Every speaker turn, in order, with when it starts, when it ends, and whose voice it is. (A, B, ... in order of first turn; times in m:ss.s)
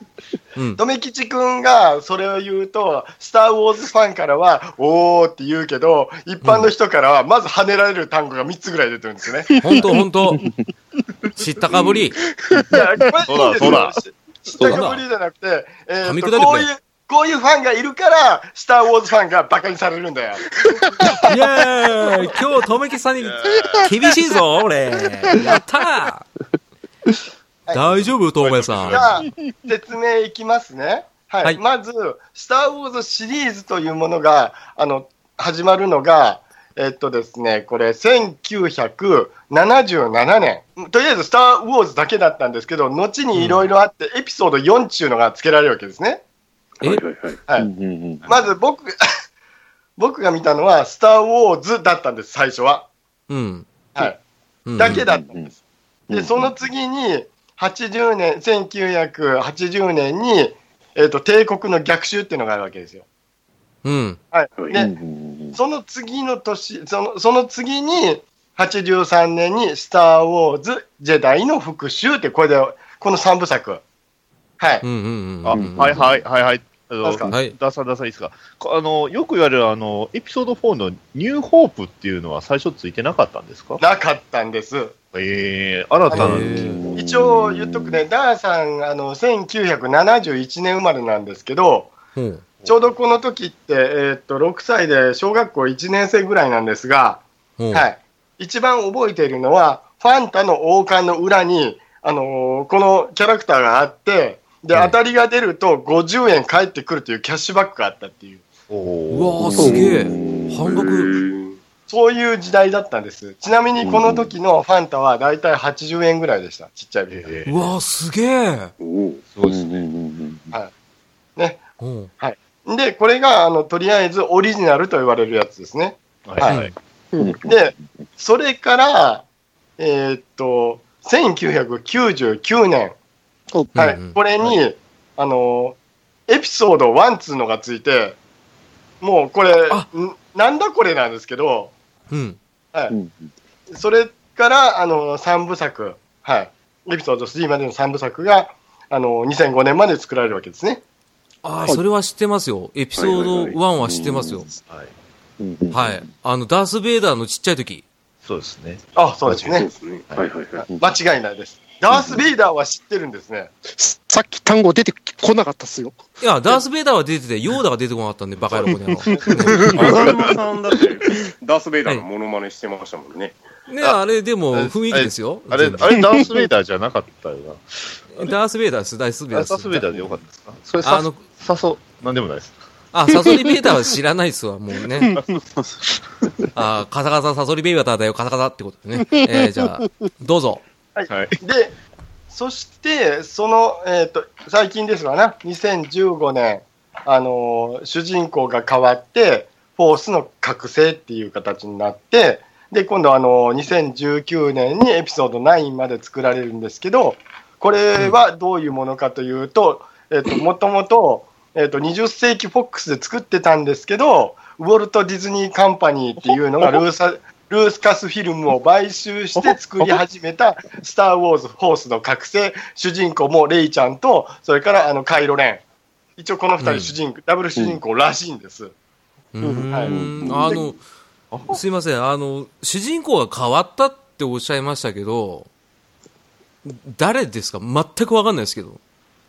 0:00.6-0:00.8 A
0:00.8-0:09.6 B
0:06.4-0:06.7 A
0:09.5-0:09.9 C
0:09.6-0:10.4 A
0:11.4-0:12.2 A
0:12.5-0:13.1 C
0:12.7-0:20.4 B
0:13.3-0:14.0 D
0:14.6-0:15.0 A
0:16.0-0:16.7 A
0:21.2-0:26.3 A
0:23.2-0:23.9 D
0:23.5-0:23.9 C
0:27.7-0:28.0 B
0:27.7-0:29.1 A
0:28.4-0:29.2 D
0:28.9-0:46.2 B
0:43.3-0:43.7 A
0:46.8-0:47.4 E
0:47.6-0:48.3 F
0:48.3-0:49.0 B
0:50.0-0:52.9 B
0:53.3-0:53.7 A
0:54.0-0:54.2 B
0:54.7-0:55.0 A
0:54.8-0:55.6 B
0:54.8-0:55.5 F
0:56.1-0:56.6 F
0:56.1-1:03.0 B
1:03.8-1:04.2 A
1:04.3-1:04.9 B
1:04.7-1:05.6 F
1:05.5-1:13.8 B
1:14.6-1:14.8 B
1:14.8-1:16.0 A
1:15.4-1:23.8 D
1:15.5-1:16.1 F
1:17.0-1:17.3 B
1:17.3-1:17.6 A
1:23.8-1:25.0 B
1:25.1-1:27.0 D
1:26.1-1:26.8 A
1:26.2-1:28.0 F
1:27.0-1:32.0 B
1:32.2-1:32.4 A
1:32.7-1:48.4 B
1:37.6-1:37.9 A
1:48.7-1:49.8 D
1:49.1-1:51.2 A
1:49.4-1:50.7 F
1:50.6-1:51.6 E
1:51.9-1:57.4 B
1:53.8-1:54.3 F
1:57.1-1:57.6 D
1:57.5-1:58.7 A
1:58.8-1:59.2 E
1:59.3-1:59.8 D
1:59.4-2:00.6 F
2:01.4-2:01.6 B
2:01.8-2:02.1 A
2:02.2-2:06.6 B
2:06.2-2:06.7 D
2:06.4-2:06.7 A
2:07.1-2:07.4 C
2:07.2-2:07.8 F
2:07.4-2:09.2 B
2:09.8-2:13.0 B
2:13.8-2:14.2 A
2:13.8-2:15.8 B
2:16.3-2:18.2 B
2:19.0-2:21.7 B
2:22.1-2:22.4 A
2:22.9-2:23.3 F
2:23.7-2:30.8 B
2:31.4-2:34.5 A
2:33.0-2:33.6 E
2:33.8-2:34.6 F
2:34.7-2:34.9 D
2:35.4-2:36.1 F
2:35.7-2:37.8 A
2:38.2-2:38.8 D
2:39.0-2:39.7 B
2:39.5-2:40.7 E
2:40.6-2:43.5 B
2:40.7-2:41.0 F
2:41.9-2:42.2 F
2:43.8-2:46.0 C
2:46.2-2:50.1 A
2:48.5-2:50.7 D
2:49.2-2:49.9 C
2:49.7-2:53.4 E
2:53.7-2:56.0 A
2:54.5-2:58.3 D
2:56.0-2:56.3 C
2:58.1-2:59.9 A
2:59.3-3:02.6 D
3:00.8-3:01.2 A
3:02.9-3:05.2 A
3:06.6-3:10.6 A
3:09.1-3:09.8 C
3:11.0-3:11.7 B
3:11.1-3:11.4 D
3:12.3-3:45.6 B
3:46.2-3:48.7 B
3:46.6-3:46.9 A
3:49.3-3:50.8 A
3:49.4-3:49.8 C
3:49.9-3:50.6 F
3:51.3-3:51.6 D
3:51.5-3:55.5 A
3:56.6-3:58.8 A